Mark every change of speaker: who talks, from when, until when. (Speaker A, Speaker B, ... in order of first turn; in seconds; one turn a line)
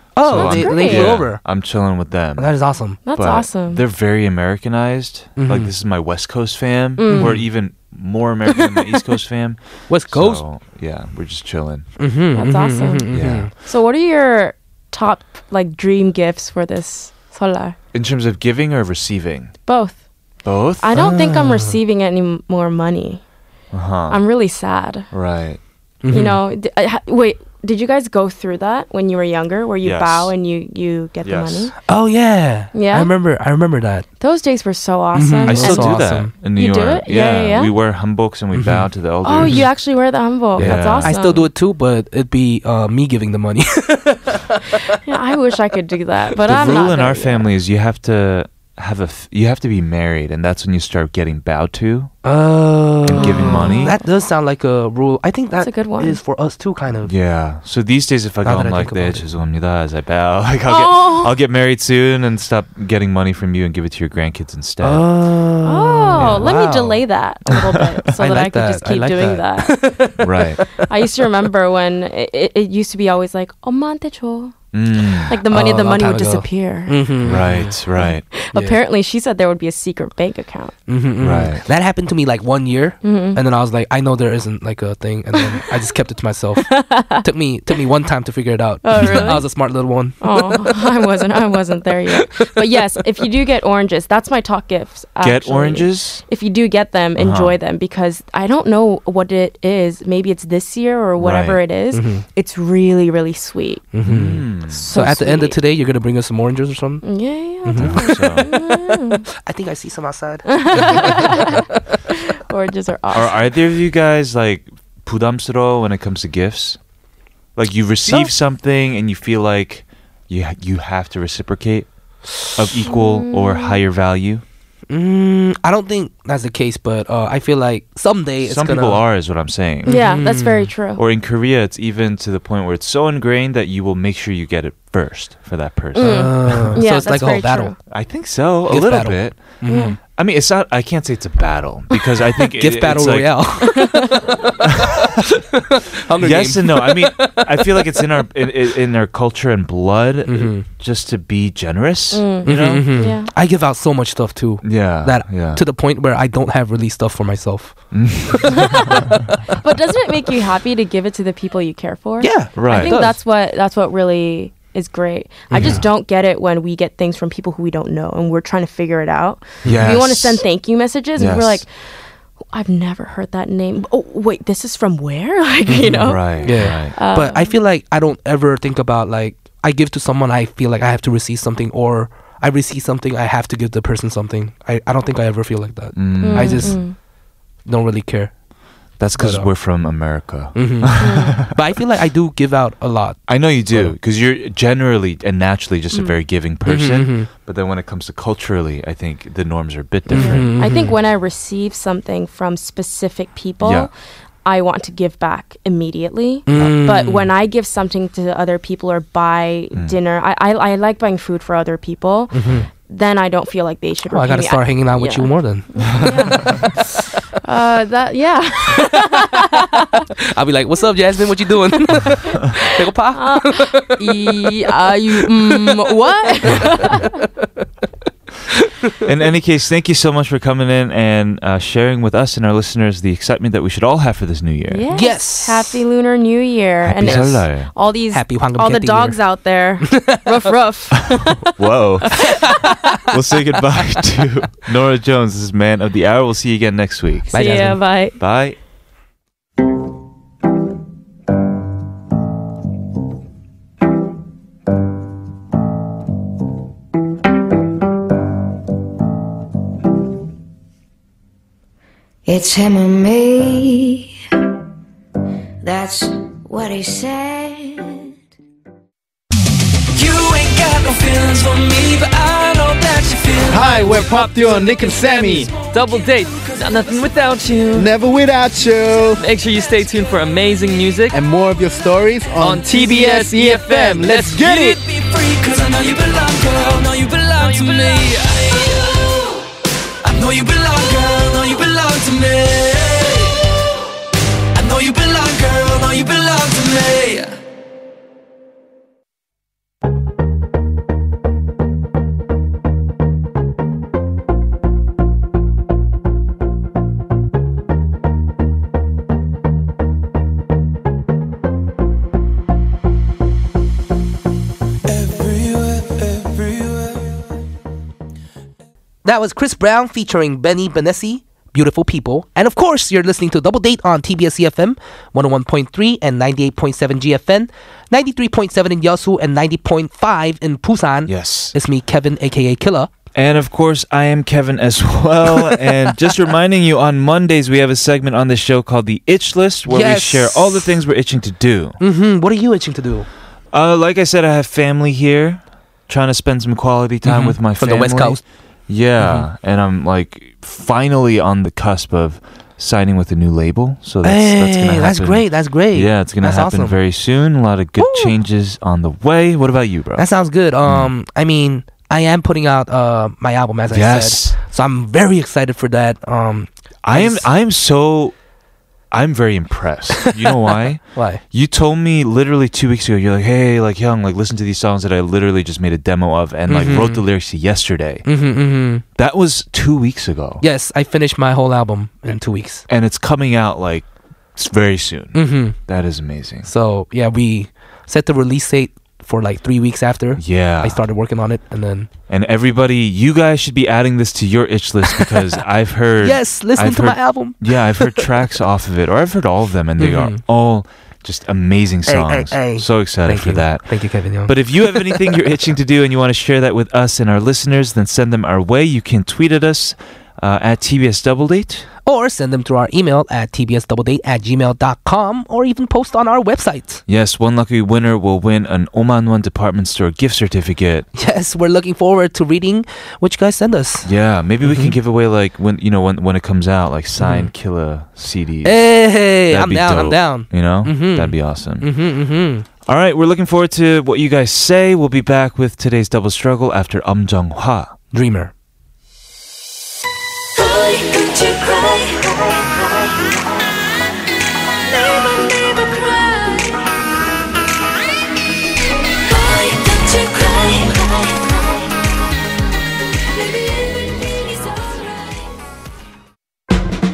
Speaker A: 0.1-1.4
Speaker B: 0.2-2.5
Speaker C: 0.3-1.2
Speaker A: 2.4-3.0
Speaker C: 3.0-3.8
Speaker B: 3.1-11.9
Speaker A: 5.4-5.7
Speaker C: 7.0-7.3
Speaker A: 7.1-7.4
Speaker A: 9.9-10.4
Speaker A: 12.0-13.5
Speaker C: 12.3-17.8
Speaker B: 13.1-13.5
Speaker B: 17.9-19.5
Speaker C: 19.6-20.0
Speaker B: 20.4-20.9
Speaker C: 20.8-23.2
Speaker A: 20.9-21.8
Speaker B: 23.7-24.2
Speaker C: 24.1-25.1
Speaker B: 25.1-25.6
Speaker A: 26.0-26.4
Speaker C: 26.1-31.7
Speaker B: 29.8-30.3
Speaker B: 31.2-31.7
Speaker A: 31.9-34.0
Speaker C: 32.7-33.1
Speaker C: 34.2-37.7
Speaker A: 35.1-36.3
Speaker B: 35.5-39.7
Speaker A: 38.5-38.8
Speaker C: 39.2-41.5
Speaker A: 40.5-44.8
Speaker B: 40.6-41.1
Speaker C: 45.0-47.4
Speaker B: 46.4-52.1
Speaker A: 52.2-57.1
Speaker B: 53.0-54.0
Speaker C: 53.2-53.9
Speaker C: 55.6-56.2
Speaker B: 57.0-65.1
Speaker A: 58.4-59.2
Speaker C: 60.7-61.4
Speaker A: 64.8-67.0
Speaker C: 65.6-69.8
Speaker B: 66.2-66.6
Speaker A: 68.2-70.8
Speaker B: 70.2-70.6
Speaker C: 70.8-74.6
Speaker B: 74.7-75.3
Speaker C: 75.3-77.1
Speaker A: 75.5-77.8
Speaker B: 77.2-78.2
Speaker C: 78.0-80.7
Speaker A: 80.9-90.8
Speaker B: 81.2-81.6
Speaker C: 83.0-83.4
Speaker C: 86.6-87.2
Speaker C: 88.8-89.5
Speaker B: 89.0-89.4
Speaker C: 90.2-103.8
Speaker A: 92.3-92.6
Speaker B: 95.2-96.2
Speaker B: 97.2-97.6
Speaker B: 101.2-101.6
Speaker A: 101.9-102.2
Speaker A: 103.9-107.1
Speaker B: 104.0-104.8
Speaker C: 104.7-105.6
Speaker C: 107.0-109.2
Speaker A: 107.6-111.6
Speaker B: 107.8-108.5
Speaker C: 110.5-113.5
Speaker B: 113.1-116.8
Speaker B: 117.5-121.9
Speaker A: 118.1-118.3
Speaker B: 122.4-124.4
Speaker C: 122.8-123.8
Speaker A: 124.9-129.0
Speaker B: 128.4-130.0
Speaker A: 129.8-130.7
Speaker C: 129.8-131.0
Speaker B: 130.9-136.8
Speaker C: 135.9-137.7
Speaker A: 136.0-137.7
Speaker B: 137.9-139.4
Speaker A: 138.7-140.0
Speaker C: 139.7-139.9
Speaker B: 140.2-143.5
Speaker A: 142.5-148.1
Speaker C: 143.8-144.3
Speaker B: 144.6-145.1
Speaker B: 146.2-152.8
Speaker A: 150.2-150.7
Speaker C: 152.1-153.3
Speaker A: 152.4-159.4
Speaker B: 154.6-155.6
Speaker B: 157.9-158.7
Speaker C: 158.6-159.0
Speaker C: 159.6-171.9
Speaker A: 162.2-163.2
Speaker B: 162.6-163.0
Speaker A: 165.5-165.8
Speaker A: 169.6-169.9
Speaker B: 169.6-170.4
Speaker B: 171.2-171.6
Speaker C: 172.5-177.6
Speaker A: 175.7-186.8
Speaker B: 175.9-176.9
Speaker B: 185.9-186.8
Speaker C: 186.2-186.9
Speaker A: 187.6-188.3
Speaker B: 189.0-191.5
Speaker A: 189.2-189.5
Speaker A: 190.5-193.9
Speaker C: 191.0-191.4
Speaker B: 193.3-200.7
Speaker A: 196.7-197.3
Speaker A: 200.1-200.9
Speaker C: 200.2-203.9
Speaker B: 203.6-203.9
Speaker C: 204.4-220.1
Speaker A: 206.5-207.3
Speaker B: 206.5-206.8
Speaker A: 212.3-212.7
Speaker A: 214.1-215.7
Speaker B: 215.9-216.6
Speaker A: 218.8-219.2
Speaker A: 220.3-224.4
Speaker C: 222.5-227.1
Speaker A: 226.5-227.1
Speaker B: 229.0-234.9
Speaker C: 234.7-241.5
Speaker A: 234.9-235.8
Speaker B: 236.8-237.7
Speaker A: 237.0-237.4
Speaker A: 238.1-239.2
Speaker A: 239.8-240.2
Speaker B: 241.4-242.3
Speaker C: 242.1-242.3
Speaker B: 243.1-247.3
Speaker A: 247.3-247.8
Speaker C: 247.3-248.2
Speaker B: 248.2-248.6
Speaker D: 262.2-264.1
Speaker D: 265.6-268.1
Speaker E: 269.9-273.9
Speaker F: 273.5-275.5
Speaker G: 273.7-274.5
Speaker E: 275.1-277.0
Speaker G: 275.7-277.9
Speaker F: 277.7-279.2
Speaker G: 279.2-281.2
Speaker F: 281.1-284.8
Speaker G: 282.4-284.5
Speaker E: 284.4-289.4
Speaker E: 290.0-293.5
Speaker E: 294.5-297.4
Speaker E: 314.9-316.9
Speaker A: 319.0-332.9
Speaker B: 331.1-331.5
Speaker B: 333.1-341.8
Speaker A: 339.7-340.8
Speaker A: 341.8-343.1
Speaker B: 343.5-360.1
Speaker A: 347.0-348.2
Speaker A: 349.0-349.2
Speaker A: 354.0-356.8
Speaker A: 357.8-358.1
Speaker A: 360.0-367.2
Speaker B: 360.6-360.9
Speaker B: 363.7-364.4
Speaker B: 366.8-368.1
Speaker B: 368.9-378.1
Speaker A: 370.1-371.2
Speaker A: 376.5-377.1
Speaker A: 378.1-378.8
Speaker B: 379.0-380.4
Speaker A: 380.4-382.6
Speaker B: 382.7-386.5
Speaker A: 385.1-385.6
Speaker A: 386.4-391.9
Speaker B: 390.2-390.8
Speaker B: 392.1-411.7
Speaker A: 394.9-395.3
Speaker A: 396.0-398.1
Speaker A: 399.8-400.2
Speaker A: 401.9-405.2
Speaker A: 411.9-416.8
Speaker B: 416.9-420.9
Speaker A: 420.9-423.9
Speaker B: 423.8-431.7
Speaker A: 424.4-424.8
Speaker A: 427.0-427.3
Speaker A: 428.4-432.4
Speaker B: 432.6-437.7
Speaker A: 437.9-438.3
Speaker E: 440.4-443.0
Speaker E: 444.6-446.7
Speaker E: 449.0-451.5
Speaker E: 453.1-455.3